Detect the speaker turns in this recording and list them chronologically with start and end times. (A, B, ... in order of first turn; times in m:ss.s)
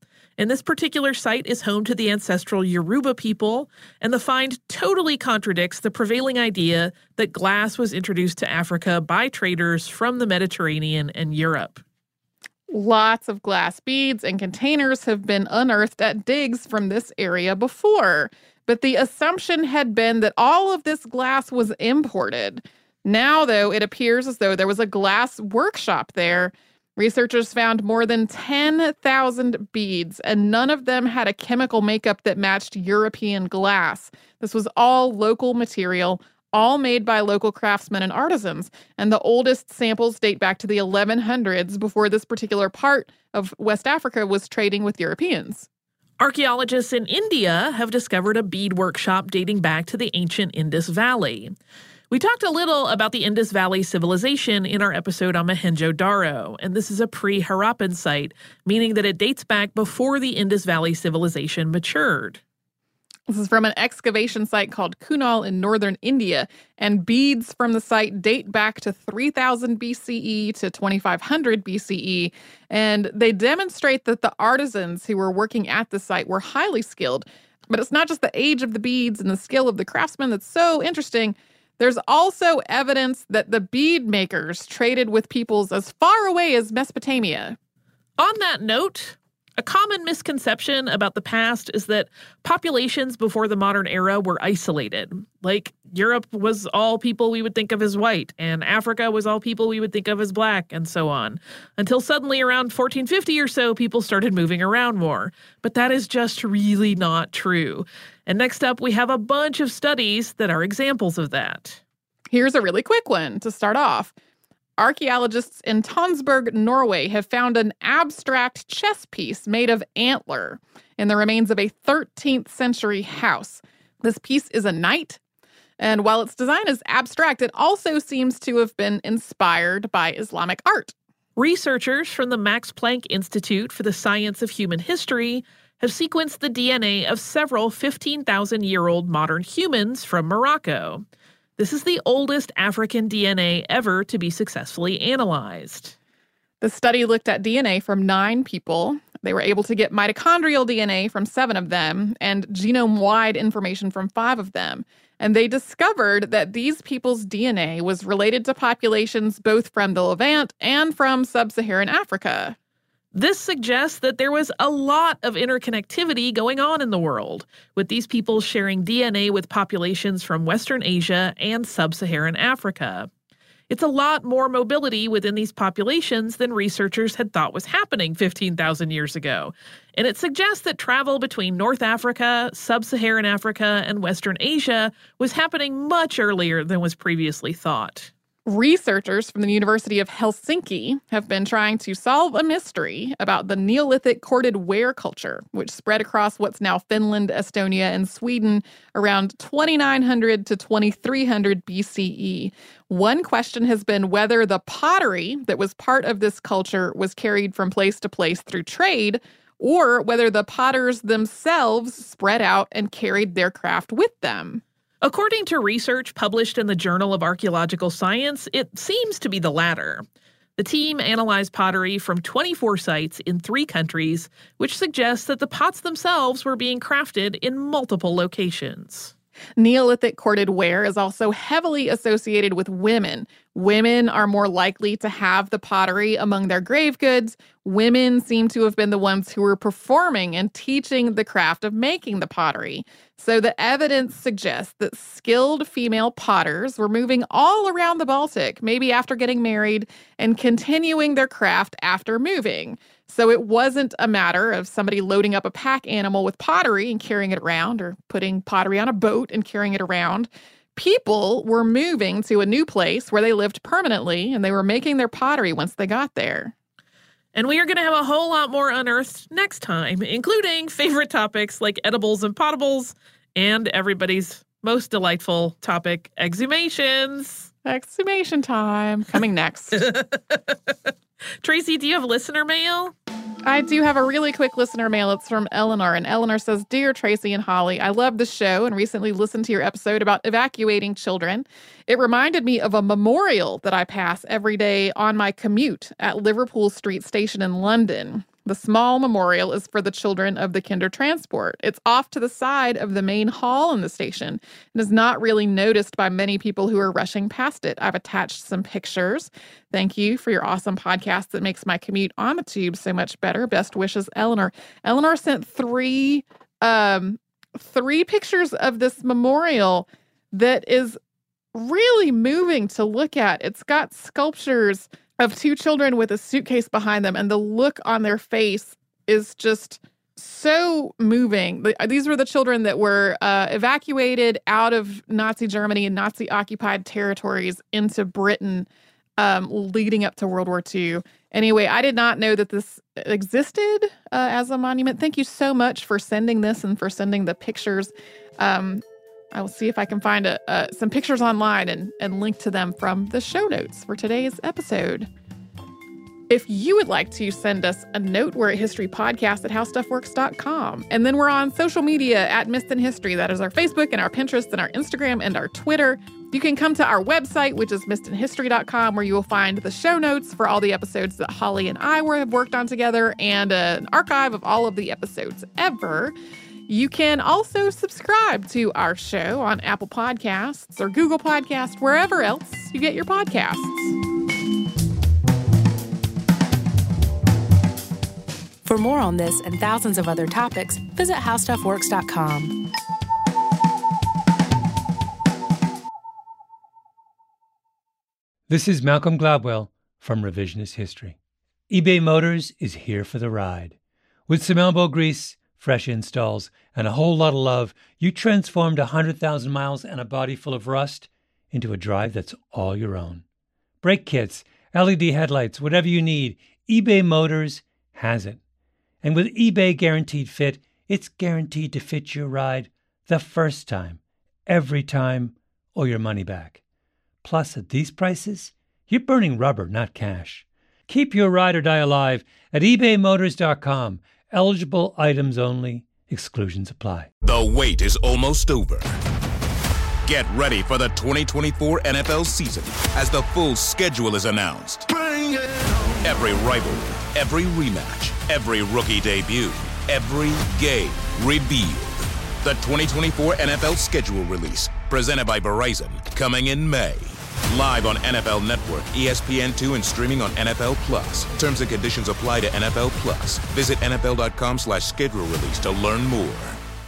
0:00.4-0:11.8 A
0:12.7-0:45.7 B
0:46.2-0:51.5 A
0:52.1-1:02.4 A
1:03.3-1:27.6 B
1:28.2-1:51.8 A
1:52.3-1:54.1 B
1:54.8-2:05.2 B
2:05.8-2:11.0 B
2:11.4-2:21.0 A
2:21.6-2:26.0 A
2:26.6-2:42.6 B
2:43.1-2:53.1 A
2:53.7-3:08.1 A
3:08.5-3:34.6 B
3:35.0-3:40.0 A
3:40.6-3:49.1 A
3:49.6-4:26.5 B
4:27.3-4:37.5 A
4:37.6-4:39.9 B
4:39.7-4:42.9 A
4:43.4-5:21.0 B
5:21.5-5:55.1 B
5:56.3-6:16.2 B
6:16.7-6:23.9 B
6:28.6-6:32.6 C
6:38.5-6:41.2 D
6:41.7-6:43.8 D
6:44.3-6:53.2 D
6:53.8-6:58.4 D
6:59.0-7:06.6 D
7:07.2-7:17.1 D
7:17.2-7:18.9 E
7:20.0-7:25.0 E
7:26.0-7:46.6 E